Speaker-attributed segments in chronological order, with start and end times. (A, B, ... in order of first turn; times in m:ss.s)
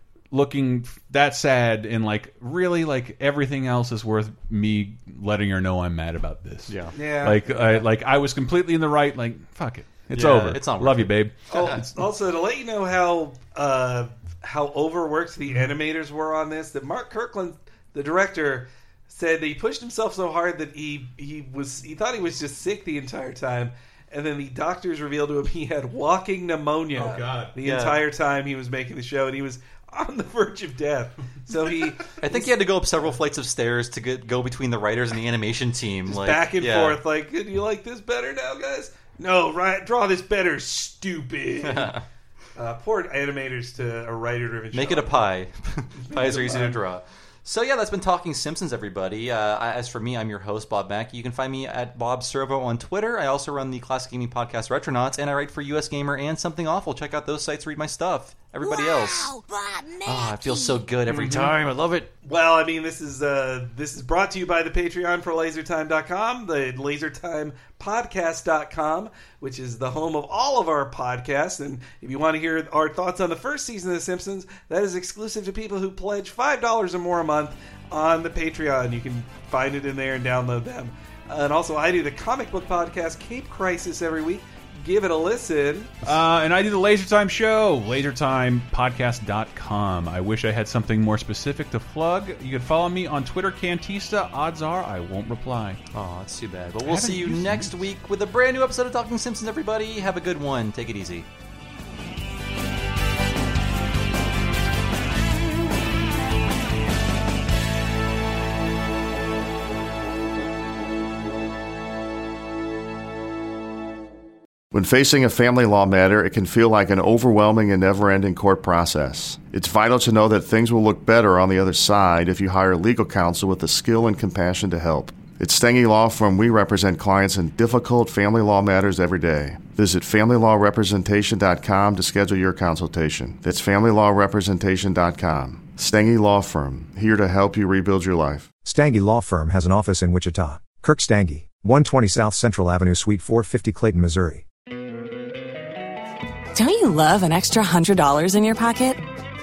0:00.3-0:12.1 A
0:06.7-0:07.0 B
0:07.0-0:07.9 C
0:10.1-0:11.8 B
0:11.5-0:32.5 C
0:26.9-0:27.5 A
0:27.6-0:28.0 B
0:32.2-0:37.0 B
0:36.1-0:41.9 C
0:41.6-0:42.0 B
0:42.6-0:45.3 C
0:44.7-0:59.4 B
0:46.1-0:46.8 C
1:00.0-1:02.1 B
1:01.1-1:01.6 A
1:02.2-1:26.0 C
1:26.0-1:35.8 A
1:35.9-1:41.3 B
1:36.8-1:37.8 A
1:54.7-2:18.5 D
2:18.6-2:24.4 E
2:26.5-2:29.0 F